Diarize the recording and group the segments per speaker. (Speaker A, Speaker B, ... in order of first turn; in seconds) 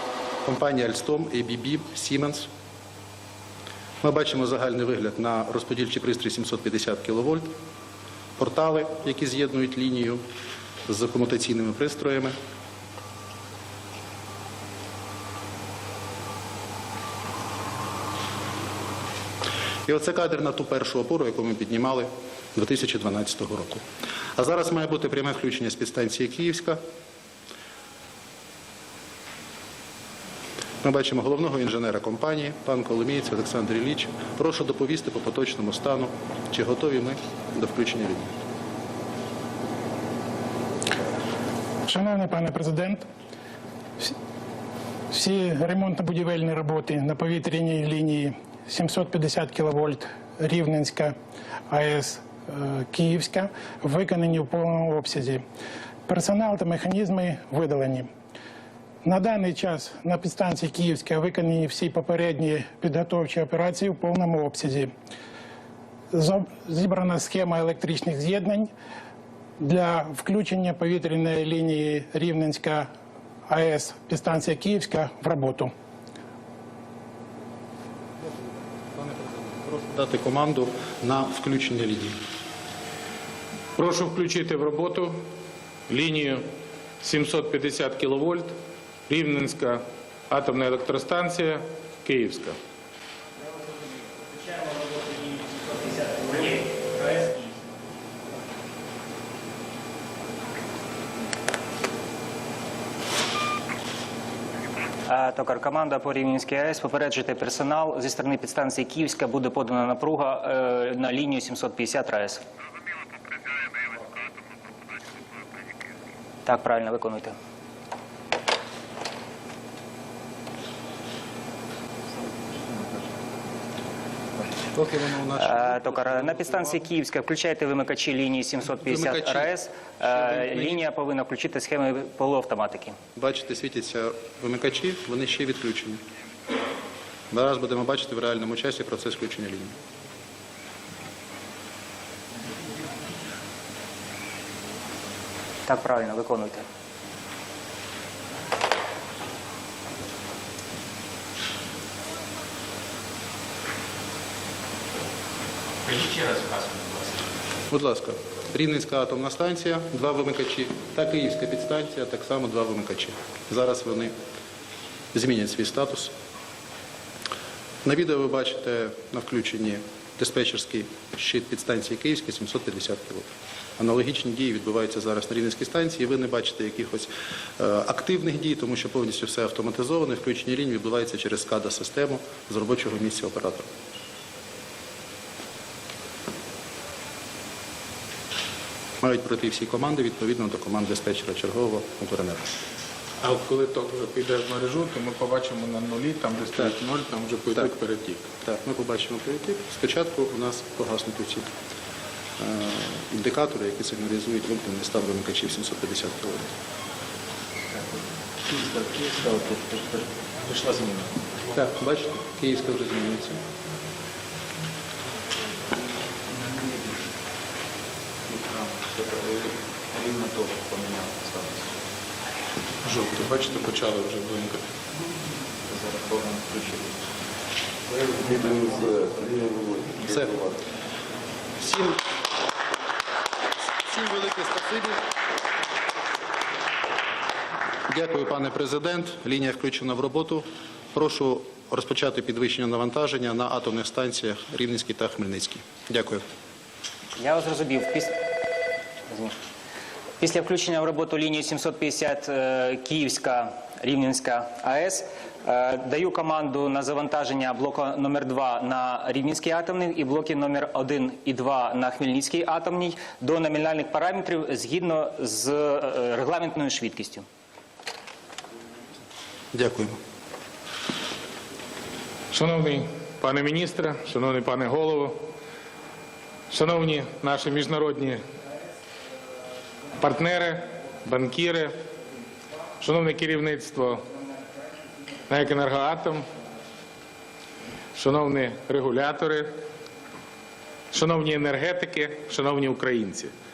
Speaker A: 0.5-2.5, 4.0-7.5, 8.4-10.2, 10.9-12.4, 19.9-23.8, 24.4-26.8, 30.8-38.4, 78.2-82.2, 124.7-126.8, 128.8-130.8, 133.2-136.0, 137.3-139.8, 157.7-164.1, 165.1-166.1, 167.8-183.7, 189.0-192.5, 198.4-201.5, 202.4-206.5, 211.5-213.4, 230.0-230.4, 231.6-232.0, 233.9-235.0, 237.9-246.2, 269.5-270.0
Speaker B: 41.9-43.1, 45.1-51.1, 51.7-55.4, 56.1-58.1, 59.0-64.9, 66.1-68.7, 69.6-72.9, 73.5-75.7
Speaker C: 83.8-85.2, 85.9-86.4, 87.0-88.6, 89.1-92.6, 193.2-198.3, 222.8-224.7, 272.3-275.3, 276.5-278.2, 280.0-281.8, 282.8-284.1, 285.3-286.3, 288.0-289.5, 290.9-293.3
Speaker D: 94.2-97.6, 105.1-112.4, 116.5-117.4, 125.4-133.0, 145.7-146.7, 247.2-248.2, 249.1-249.4, 250.2-267.3
Speaker E: 156.0-156.3, 208.5-211.1, 218.3-221.7, 225.7-226.9, 228.0-230.3